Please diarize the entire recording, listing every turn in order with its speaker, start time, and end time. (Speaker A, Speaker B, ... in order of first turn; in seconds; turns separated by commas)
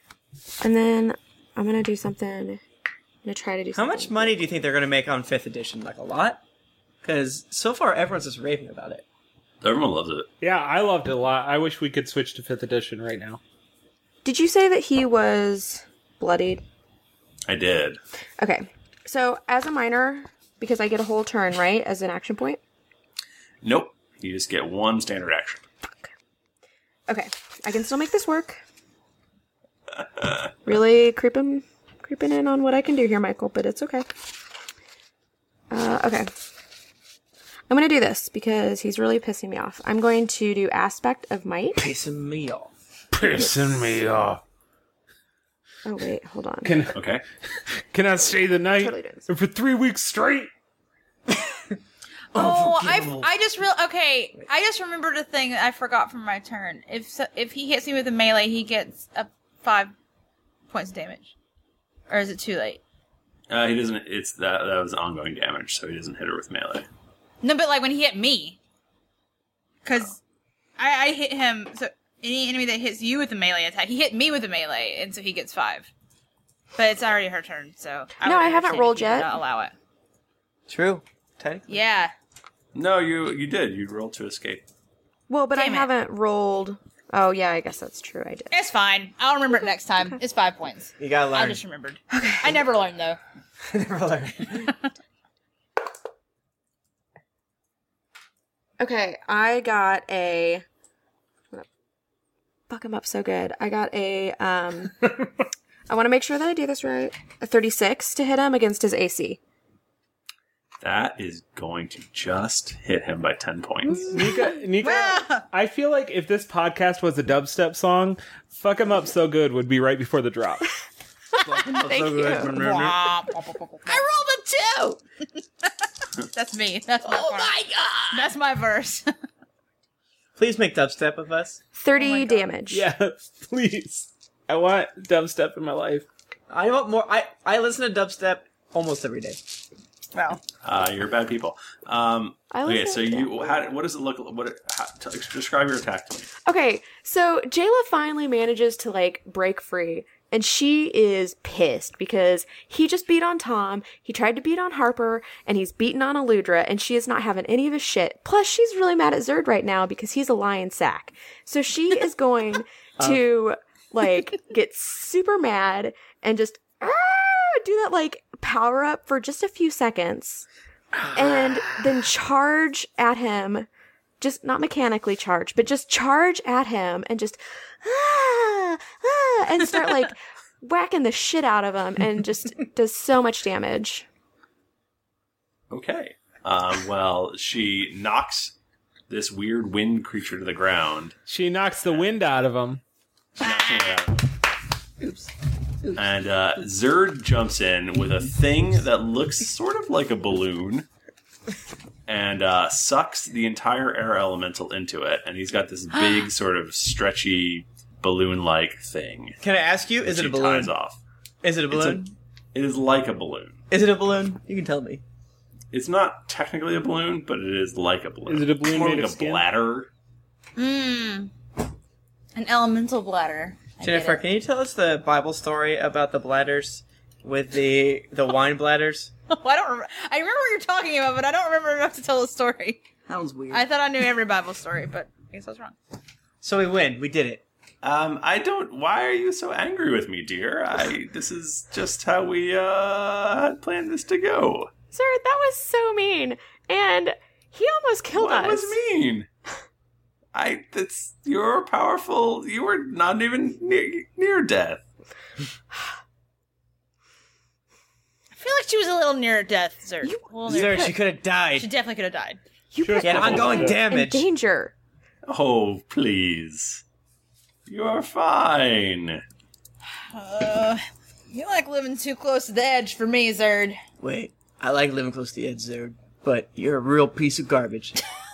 Speaker A: 0.6-2.6, Speaker A: 3.2-4.3, Speaker B: 3.7-6.4, Speaker B: 7.0-9.0, Speaker C: 9.6-10.3, Speaker D: 10.4-13.4, Speaker A: 14.2-16.6, Speaker C: 17.5-18.0, Speaker A: 18.4-22.6, Speaker C: 23.6-25.6, Speaker A: 27.1-28.6, Speaker C: 30.2-30.5, Speaker A: 30.6-34.1, Speaker A: 35.7-36.3, Speaker A: 37.7-41.8, Speaker B: 41.8-42.7, Speaker D: 43.1-44.4, Speaker A: 43.2-43.7, Speaker A: 45.8-46.8, Speaker D: 46.6-47.0, Speaker C: 46.9-47.2, Speaker D: 47.8-50.5, Speaker A: 48.6-49.3, Speaker B: 52.3-53.3, Speaker E: 52.3-59.9, Speaker E: 60.7-61.3, Speaker E: 62.1-62.8, Speaker C: 63.5-66.9, Speaker E: 67.4-68.6, Speaker E: 69.8-70.2, Speaker E: 70.8-75.9, Speaker E: 76.8-79.7, Speaker A: 78.2-79.3, Speaker B: 80.7-81.7, Speaker E: 81.7-82.1, Speaker C: 82.7-84.6, Speaker A: 85.3-88.5, Speaker E: 85.5-85.9, Speaker E: 88.5-93.2, Speaker B: 91.0-91.6, Speaker A: 92.1-92.5, Speaker B: 93.7-94.7, Speaker A: 98.8-100.6, Speaker A: 102.7-105.3, Speaker A: 105.9-109.4, Speaker C: 110.8-114.3, Speaker D: 114.1-120.7, Speaker E: 114.8-115.4, Speaker B: 121.4-123.1, Speaker A: 121.7-122.6, Speaker E: 122.5-125.0, Speaker E: 125.6-129.1, Speaker B: 130.4-131.6, Speaker A: 131.7-132.8, Speaker E: 132.0-132.5, Speaker D: 132.7-136.0, Speaker B: 136.5-139.6, Speaker E: 140.1-140.4, Speaker C: 140.6-146.3, Speaker A: 142.5-143.7, Speaker A: 146.4-170.4, Speaker B: 170.9-171.8, Speaker A: 171.1-173.7, Speaker A: 174.2-184.1, Speaker C: 185.7-188.5, Speaker C: 189.1-191.2, Speaker D: 191.3-192.8, Speaker C: 193.4-194.2, Speaker C: 195.9-200.9, Speaker C: 202.1-209.4, Speaker B: 209.4-210.7, Speaker C: 210.0-211.0, Speaker B: 211.4-212.1, Speaker C: 211.7-213.6, Speaker B: 213.7-215.0, Speaker C: 215.7-219.9, Speaker D: 218.2-219.5, Speaker E: 220.6-221.3, Speaker E: 222.3-224.2, Speaker B: 223.8-229.1, Speaker E: 229.3-232.8, Speaker B: 233.1-233.6, Speaker E: 233.5-235.8, Speaker B: 236.4-237.4, Speaker C: 237.8-244.7, Speaker A: 244.9-248.8, Speaker C: 248.1-249.3, Speaker C: 250.3-254.8, Speaker E: 258.4-261.0, Speaker A: 260.0-260.9, Speaker B: 260.4-261.7, Speaker E: 261.5-262.4, Speaker A: 262.7-264.7, Speaker D: 262.8-263.9, Speaker B: 263.0-264.2, Speaker C: 265.3-266.8, Speaker C: 267.7-269.2, Speaker E: 270.1-273.8, Speaker B: 274.0-278.0